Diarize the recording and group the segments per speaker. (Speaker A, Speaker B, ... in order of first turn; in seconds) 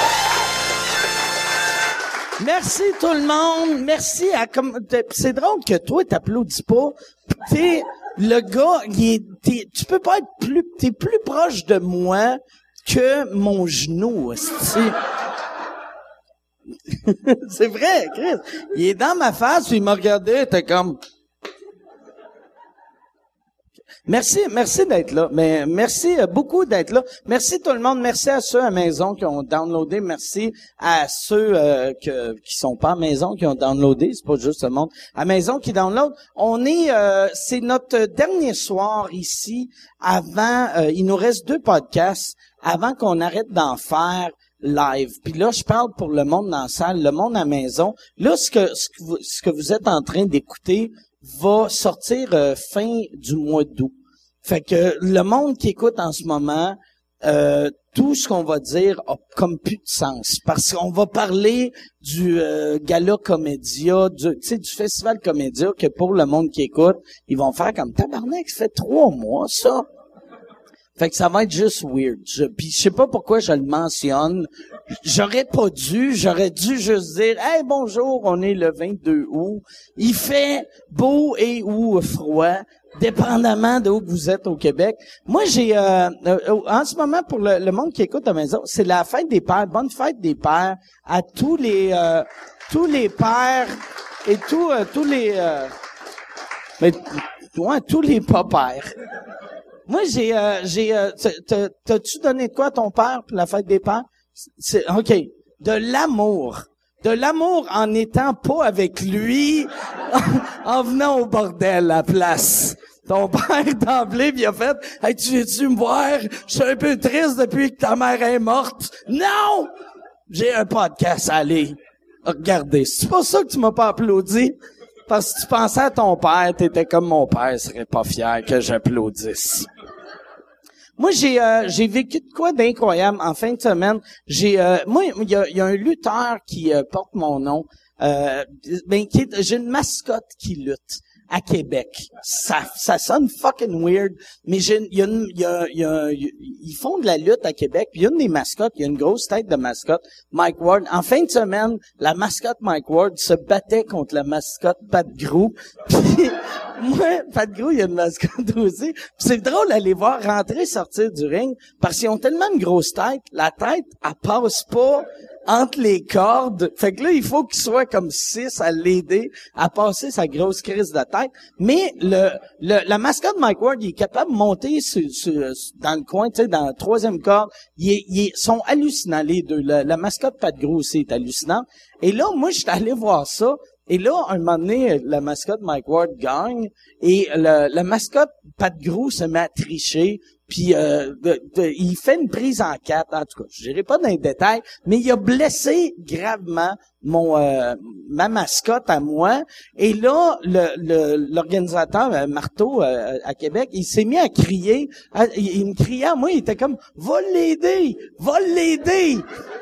Speaker A: 2.4-14.9, 16.9-21.0, 24.1-69.8, 71.0-95.7, 96.8-98.9, 99.9-119.7, 120.3-124.5, 125.1-129.7, 131.0-209.2